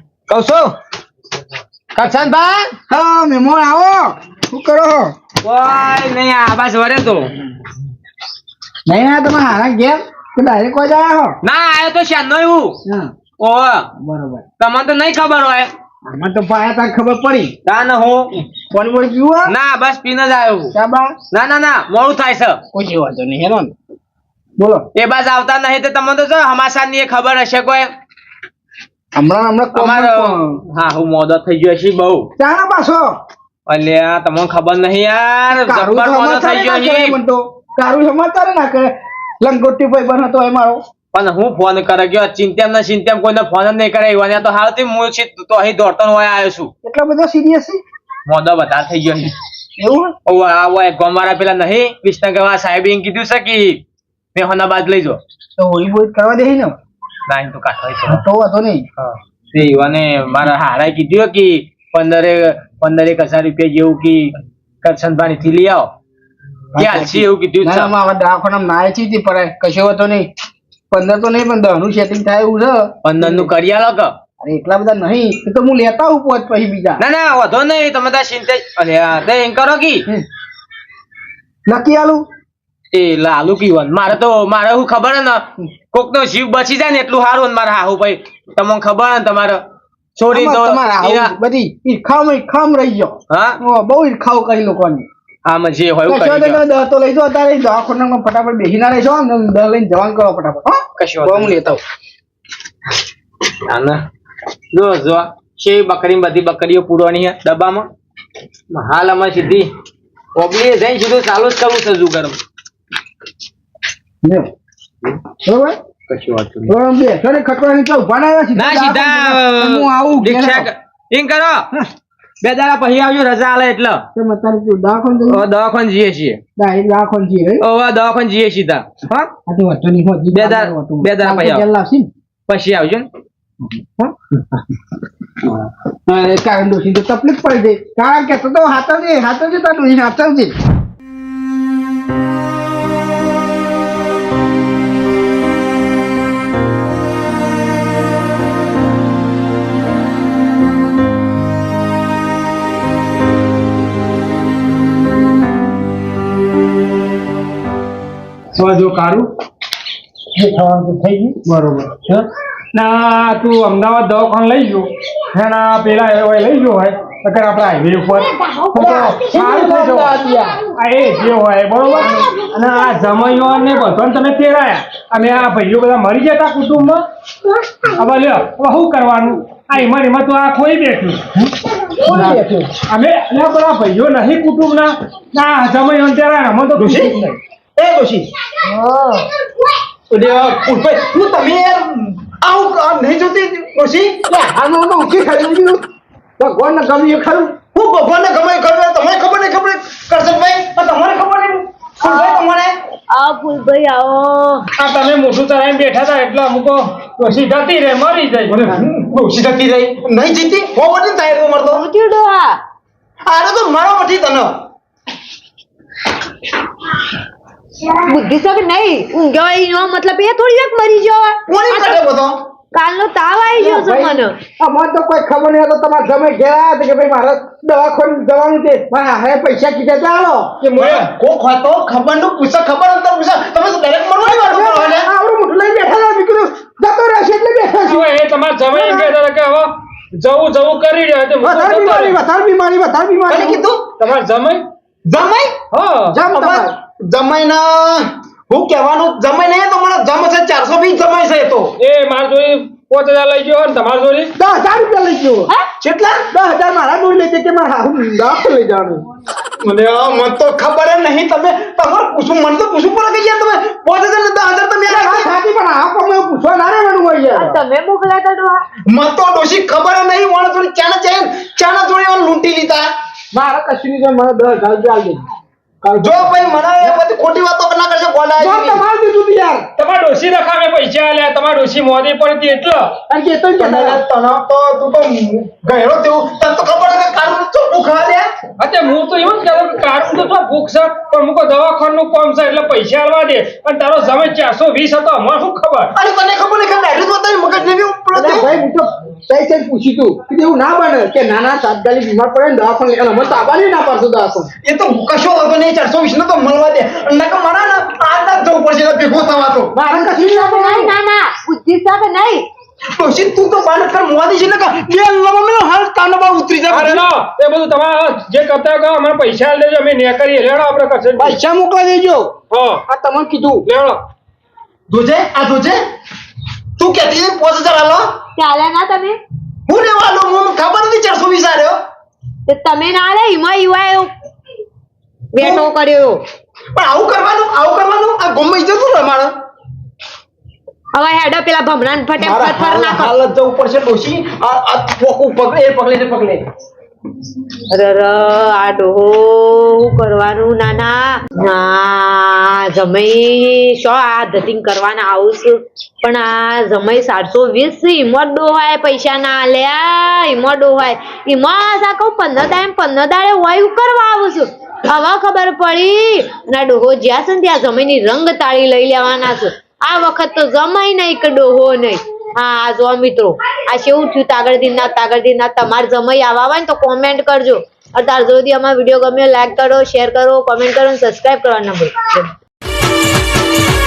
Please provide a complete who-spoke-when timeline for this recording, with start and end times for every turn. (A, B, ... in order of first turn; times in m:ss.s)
0:00.3-0:00.7 A
0:02.0-0:02.7 A
0:02.9-0:05.2 B
0:05.4-0:07.3 A
0:08.9-0:11.4 B
0:11.4-0:12.8 A
0:12.9-0:13.1 B
0:13.4-0:13.9 A
0:14.0-0:14.4 B
0:14.6-0:15.7 A
0:16.1-0:17.6 B
0:17.7-0:18.3 A
0:18.7-0:19.5 B
0:19.5-0:20.7 A
0:20.7-0:21.2 B
0:21.3-0:22.6 A
0:22.7-0:23.7 B
0:24.6-0:24.9 B
0:25.0-0:27.9 A
0:29.2-0:30.6 B
0:29.7-0:32.3 A
0:32.4-0:33.2 B
0:33.7-0:37.2 A
0:35.6-0:40.8 B
0:41.1-0:46.7 A
0:46.8-0:47.8 B
0:48.3-0:49.4 A
0:49.8-0:50.1 B
0:50.3-0:53.8 A
0:54.4-0:55.2 A
0:55.6-0:56.8 B
0:57.3-0:58.2 A
0:58.1-0:58.8 B
0:59.0-1:05.9 A
1:06.8-1:07.9 A
1:06.8-1:10.3 B
1:10.9-1:13.5 B
1:13.0-1:14.2 A
1:14.4-1:17.0 B
1:17.0-1:20.1 A
1:21.7-1:22.2 B
1:22.9-1:29.6 A
1:30.2-1:31.3 A
1:30.3-1:35.1 B
1:33.3-1:33.6 A
1:35.4-1:36.6 A
1:36.1-1:41.8 B
1:41.0-1:41.6 A
1:43.7-1:44.0 A
1:44.7-1:47.9 A
1:48.7-1:49.7 A
1:50.4-1:52.4 A
1:54.2-1:54.5 B
1:55.4-1:55.8 B
1:56.1-1:56.7 A
1:56.7-2:00.7 B
1:58.6-2:01.7 A
2:02.4-2:04.0 A
2:04.2-2:05.4 B
2:05.3-2:06.4 A
2:06.6-2:07.6 B
2:07.6-2:09.3 A
2:09.5-2:12.1 B
2:10.3-2:11.6 A
2:12.5-2:13.1 A
2:13.8-2:14.1 B
2:15.5-2:20.5 B
2:38.6-2:39.3 C
2:40.3-2:50.1 C
2:48.4-2:49.1 D
2:48.7-2:50.6 B
2:50.7-2:57.0 C
2:57.8-3:01.5 C
3:02.1-3:07.4 C
3:02.1-3:02.5 B
3:02.2-3:02.4 E
3:06.8-3:07.2 E
3:07.8-3:08.3 E
3:08.6-3:09.3 D
3:10.1-3:14.2 E
3:14.3-3:15.8 B
3:16.4-3:17.6 B
3:17.7-3:22.8 E
3:22.0-3:22.5 D
3:23.1-3:24.7 D
3:24.8-3:28.7 C
3:28.5-3:31.8 E
3:31.7-3:32.6 D
3:33.3-3:34.6 E
3:37.9-3:42.0 D
3:41.5-3:42.4 E
3:42.7-3:44.4 D
3:43.6-3:50.6 B
3:50.6-3:51.1 C
3:50.8-3:55.1 E
3:54.2-3:58.1 B
3:57.9-4:02.2 C
3:58.7-3:59.1 B
4:01.4-4:03.6 B
4:03.3-4:03.8 E
4:04.0-4:04.6 C
4:05.1-4:05.6 E
4:05.7-4:06.2 C
4:06.1-4:06.7 B
4:06.3-4:11.8 E
4:11.8-4:14.3 C
4:14.4-4:15.5 B
4:15.8-4:16.3 E
4:16.3-4:19.0 B
4:19.6-4:25.3 E
4:24.9-4:27.6 B
4:27.4-4:28.6 D
4:28.9-4:32.9 E
4:33.3-4:35.3 B
4:35.8-4:37.0 B
4:36.0-4:38.8 E
4:38.4-4:39.7 B
4:39.8-4:43.0 C
4:43.1-4:44.0 B
4:43.6-4:48.3 E
4:48.6-4:55.9 C
4:56.0-4:58.6 E
4:58.1-5:04.5 B
5:04.6-5:09.8 E
5:09.7-5:10.9 B
5:09.9-5:12.5 D
5:13.0-5:17.1 E
5:16.7-5:21.4 C
5:21.2-5:22.2 B
5:21.7-5:22.0 E
5:22.5-5:22.8 C
5:22.9-5:23.7 B
5:23.7-5:24.0 C
5:24.9-5:25.8 E
5:26.8-5:28.2 E
5:28.4-5:29.2 D
5:29.7-5:31.8 E
5:32.5-5:34.1 D
5:35.3-5:36.2 D
5:35.4-5:35.6 E
5:36.8-5:39.3 E
5:40.9-5:43.1 D
5:42.2-5:46.4 E
5:47.7-6:22.3 D